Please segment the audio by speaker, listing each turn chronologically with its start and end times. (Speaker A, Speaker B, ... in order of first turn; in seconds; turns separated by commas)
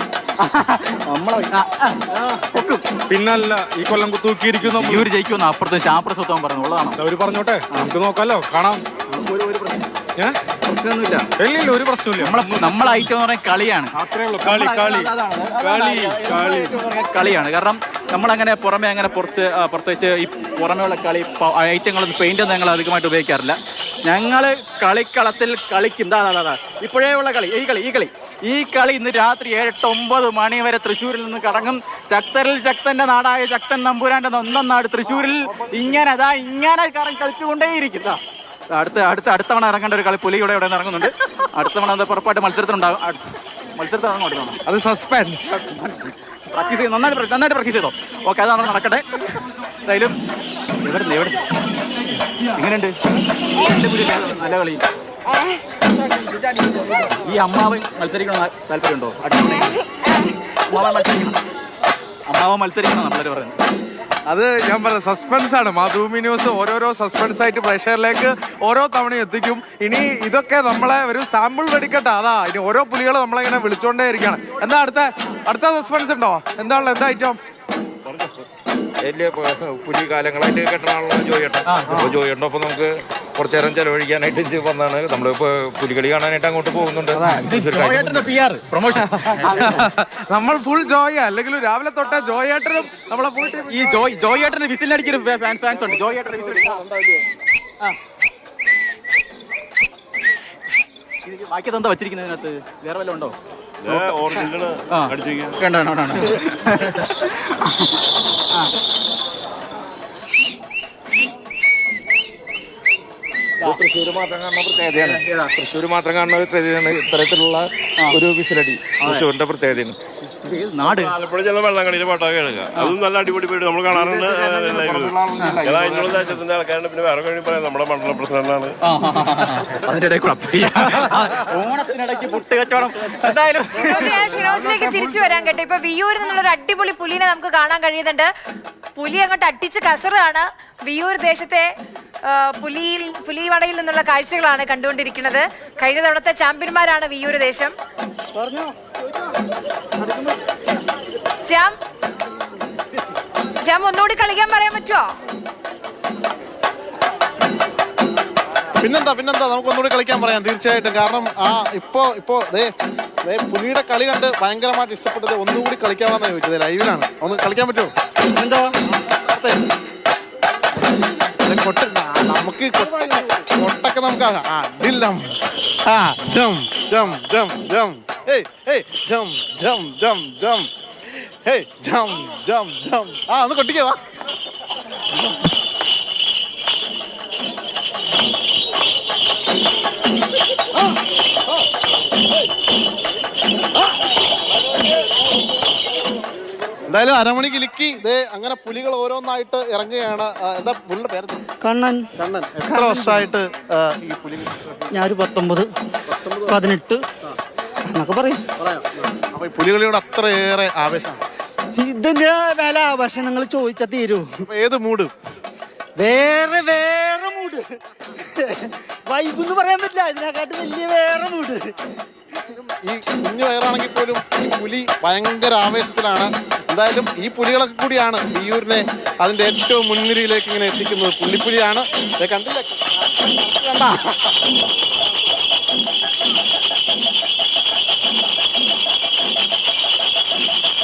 Speaker A: 0.4-2.8, Speaker B: 3.1-5.1, Speaker A: 4.6-7.0, Speaker B: 7.0-8.8, Speaker A: 9.1-9.8, Speaker A: 10.7-11.2, Speaker B: 11.4-12.7, Speaker A: 12.2-38.2, Speaker B: 14.1-16.7, Speaker A: 38.7-43.2, Speaker A: 43.8-44.6, Speaker B: 44.6-45.5, Speaker A: 45.5-49.2, Speaker A: 49.9-50.2, Speaker A: 50.8-51.4, Speaker A: 52.6-52.9, Speaker A: 53.5-54.8, Speaker A: 56.6-59.8, Speaker A: 60.7-61.4, Speaker A: 62.3-63.5, Speaker B: 64.3-77.4, Speaker C: 79.0-88.2, Speaker A: 81.7-82.1, Speaker A: 87.1-89.8, Speaker B: 89.5-93.9, Speaker A: 93.1-96.8, Speaker A: 101.2-103.3, Speaker D: 103.8-105.6, Speaker A: 103.9-107.9, Speaker C: 113.6-120.0, Speaker A: 119.0-119.3, Speaker A: 120.4-121.1, Speaker D: 120.9-128.8, Speaker C: 124.0-126.2, Speaker A: 128.8-134.2, Speaker E: 133.8-138.3, Speaker B: 134.4-134.9, Speaker E: 139.0-141.7, Speaker E: 142.2-147.7, Speaker F: 148.3-149.0, Speaker F: 150.0-150.3, Speaker E: 151.4-151.7, Speaker E: 153.6-155.1, Speaker G: 158.8-162.7, Speaker G: 163.2-167.9, Speaker F: 168.4-168.7, Speaker G: 169.0-169.7, Speaker G: 171.4-180.7, Speaker F: 172.8-173.2, Speaker G: 181.4-184.0, Speaker G: 196.9-201.4, Speaker F: 201.6-202.1, Speaker G: 202.2-204.6, Speaker F: 202.6-203.3, Speaker F: 204.9-205.7, Speaker F: 206.4-207.0, Speaker F: 207.9-208.4, Speaker G: 209.3-211.2, Speaker F: 211.8-214.3, Speaker G: 214.5-215.1, Speaker F: 216.0-217.6, Speaker F: 218.4-221.7, Speaker G: 222.5-234.1